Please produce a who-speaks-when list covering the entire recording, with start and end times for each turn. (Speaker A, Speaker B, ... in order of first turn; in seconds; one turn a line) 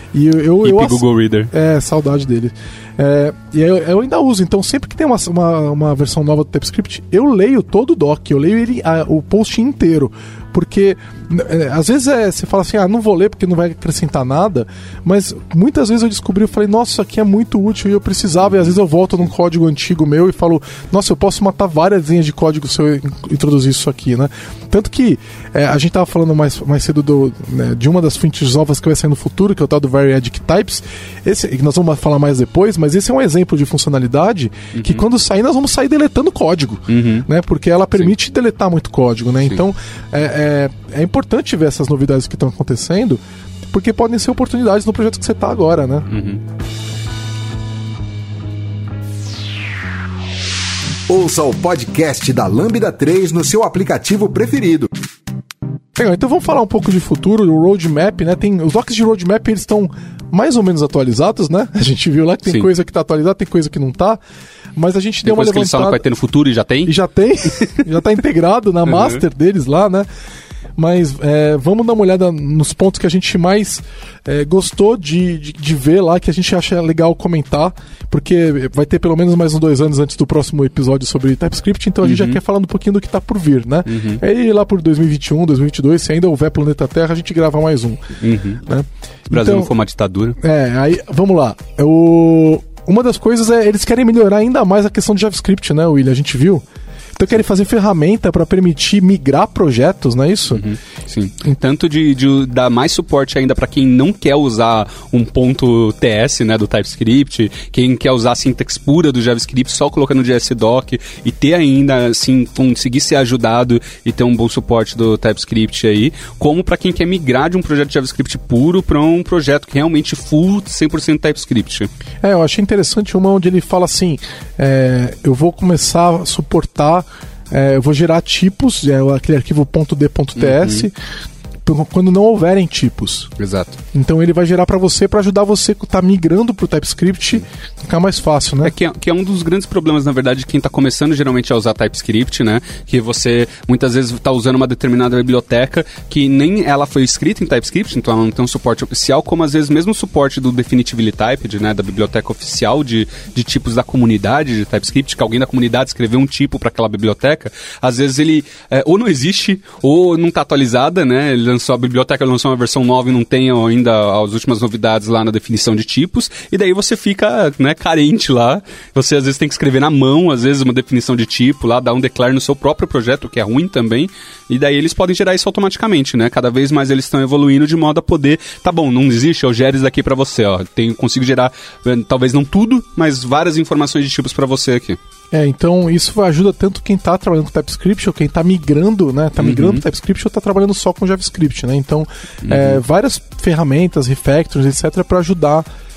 Speaker A: 0.1-46.1
Speaker B: 0.6-1.5
Speaker B: 34.7-35.0
Speaker B: 36.9-37.3
Speaker B: 46.1-46.4
Speaker C: 51.1-54.9
Speaker A: 56.0-64.2
Speaker A: 64.8-66.0
Speaker B: 65.2-66.9
Speaker A: 66.9-70.1
Speaker B: 67.6-67.8
Speaker B: 68.9-69.2
Speaker A: 70.8-88.1
Speaker B: 82.0-82.4
Speaker B: 83.9-84.2
Speaker B: 88.2-88.6
Speaker A: 88.6-89.7
Speaker B: 89.3-90.4
Speaker A: 90.4-96.6
Speaker A: 97.2-100.7
Speaker B: 100.5-121.9
Speaker A: 122.2-130.9
Speaker B: 130.4-130.9
Speaker A: 131.7-133.3
Speaker B: 133.4-133.8
Speaker A: 133.9-138.7
Speaker B: 138.6-185.0
Speaker A: 185.3-195.7
Speaker B: 189.4-189.8
Speaker B: 192.4-192.8